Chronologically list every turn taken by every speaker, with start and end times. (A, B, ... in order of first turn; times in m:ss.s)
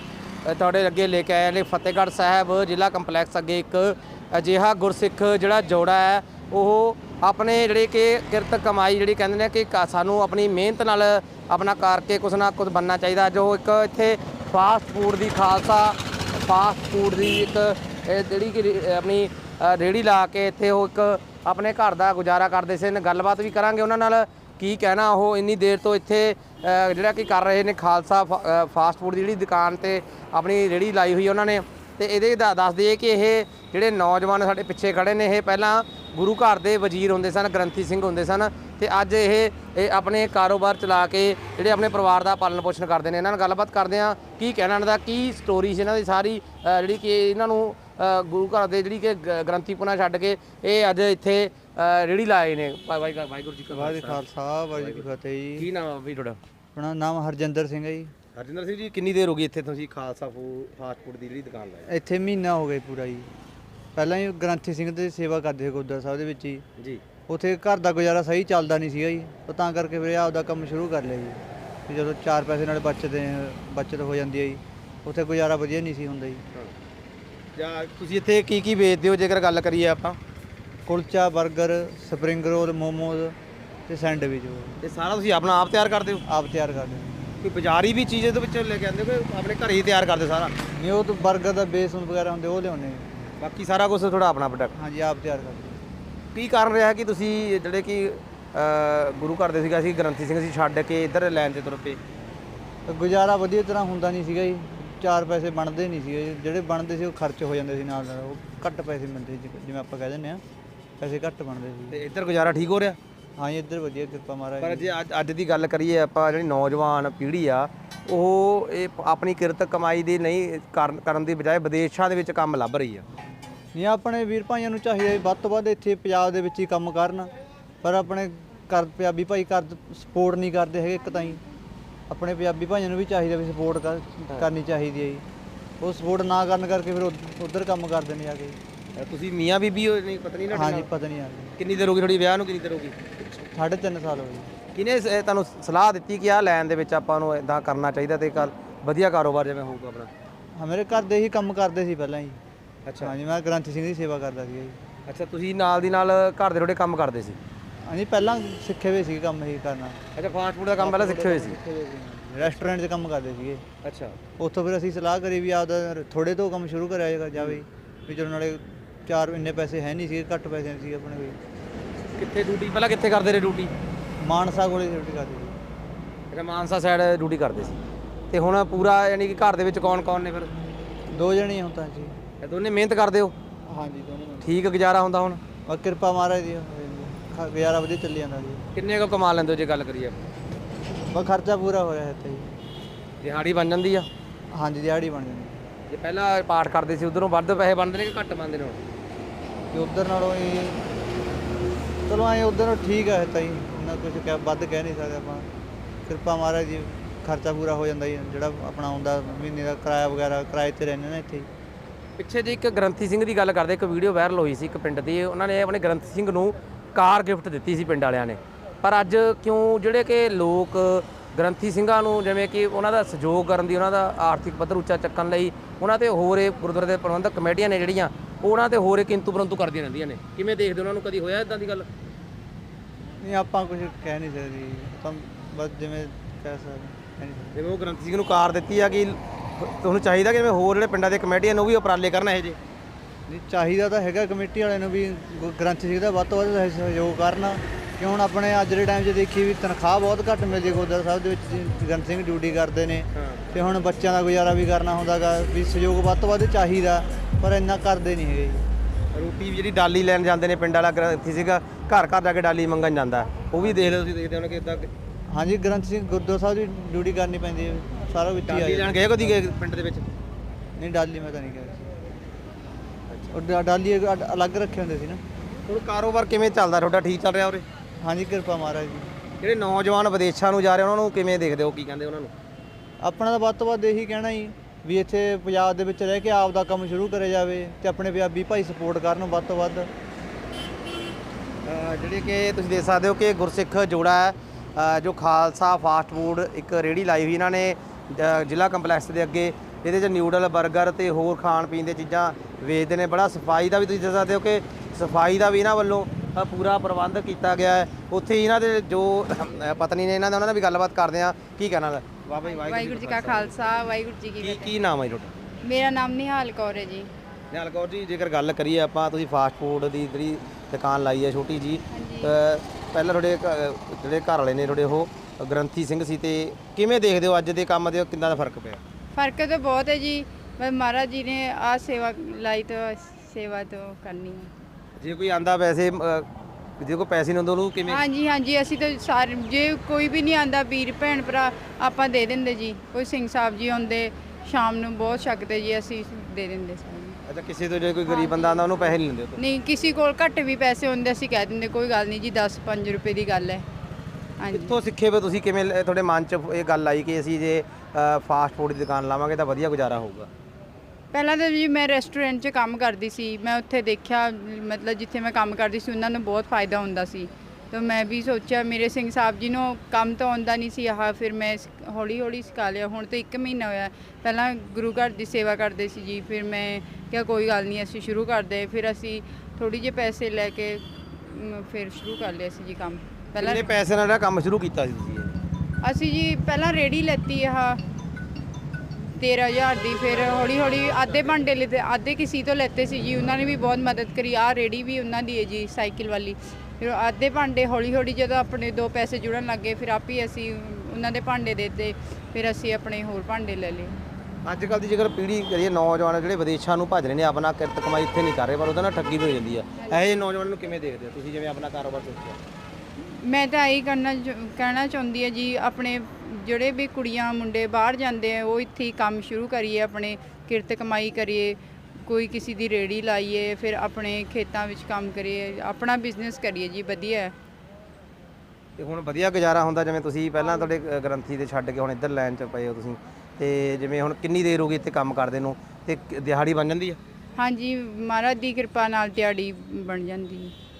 0:00.4-0:56.4 A
0:53.7-0:55.7 B
0:56.7-0:58.1 B
0:58.4-1:01.9 A
1:01.8-1:03.3 B
1:03.9-1:06.6 B
1:07.3-1:16.4 B
1:17.6-1:20.2 A
1:20.8-1:23.4 B
1:23.9-1:24.8 B
1:24.8-1:26.2 A
1:26.3-1:27.2 B
1:27.4-1:30.5 A
1:30.8-1:33.3 B
1:33.4-1:34.7 A
1:34.7-1:35.8 B
1:36.3-1:42.0 A
1:42.8-1:50.4 B
1:51.0-1:52.0 B
1:51.9-1:53.0 A
1:53.4-1:55.0 B
1:54.6-2:03.0 A
2:03.7-2:07.3 B
2:07.8-2:11.4 B
2:12.1-2:15.2 B
2:15.8-2:18.6 B
2:19.0-2:20.9 A
2:20.5-2:21.5 B
2:21.6-2:23.2 A
2:23.5-2:24.5 B
2:24.7-2:30.1 A
2:30.6-2:32.4 B
2:32.8-2:33.2 A
2:33.0-2:34.8 B
2:35.1-2:37.4 A
2:37.8-2:40.1 B
2:40.2-2:41.6 A
2:40.8-2:43.6 B
2:42.4-2:42.7 A
2:43.8-2:44.2 A
2:44.4-2:51.4 B
2:52.2-2:53.7 A
2:54.2-2:55.6 B
2:56.3-2:57.8 A
2:58.3-3:00.5 A
3:01.1-3:02.2 B
3:02.4-3:03.3 A
3:03.7-3:04.6 B
3:04.4-3:05.4 A
3:05.7-3:08.6 B
3:08.7-3:10.2 A
3:11.1-3:12.5 B
3:13.2-3:14.1 A
3:14.5-3:15.6 B
3:15.9-3:18.8 A
3:19.7-3:20.8 B
3:22.1-3:25.5 B
3:26.1-3:31.5 B
3:32.2-3:51.9 A
3:53.2-3:57.5 B
3:57.5-4:02.6 A
4:03.3-4:18.7 B
4:13.2-4:13.4 A
4:19.1-4:24.9 A
4:23.6-4:23.9 B
4:25.3-4:29.3 B
4:28.4-4:30.0 A
4:30.8-4:31.8 B
4:33.1-4:33.4 A
4:33.3-4:35.2 B
4:35.7-4:37.6 A
4:38.0-4:39.2 B
4:39.4-4:42.3 A
4:43.0-4:49.9 B
4:51.6-5:13.7 A
5:12.4-5:14.7 C
5:14.4-5:15.3 A
5:15.6-5:17.1 C
5:17.5-5:28.8 A
5:21.9-5:22.3 C
5:29.1-5:34.5 C
5:35.0-5:36.3 A
5:36.8-5:38.0 A
5:37.9-5:47.2 C
5:47.3-5:49.4 A
5:48.0-5:48.8 C
5:49.4-5:53.6 C
5:54.4-5:54.8 C
5:54.5-6:00.3 A
6:01.1-6:23.7 C
6:23.4-6:25.3 A
6:25.8-6:27.8 C
6:29.2-6:44.0 C
6:44.4-6:52.4 A
6:53.0-7:07.3 C
7:08.8-7:17.0 A
7:17.4-7:20.5 C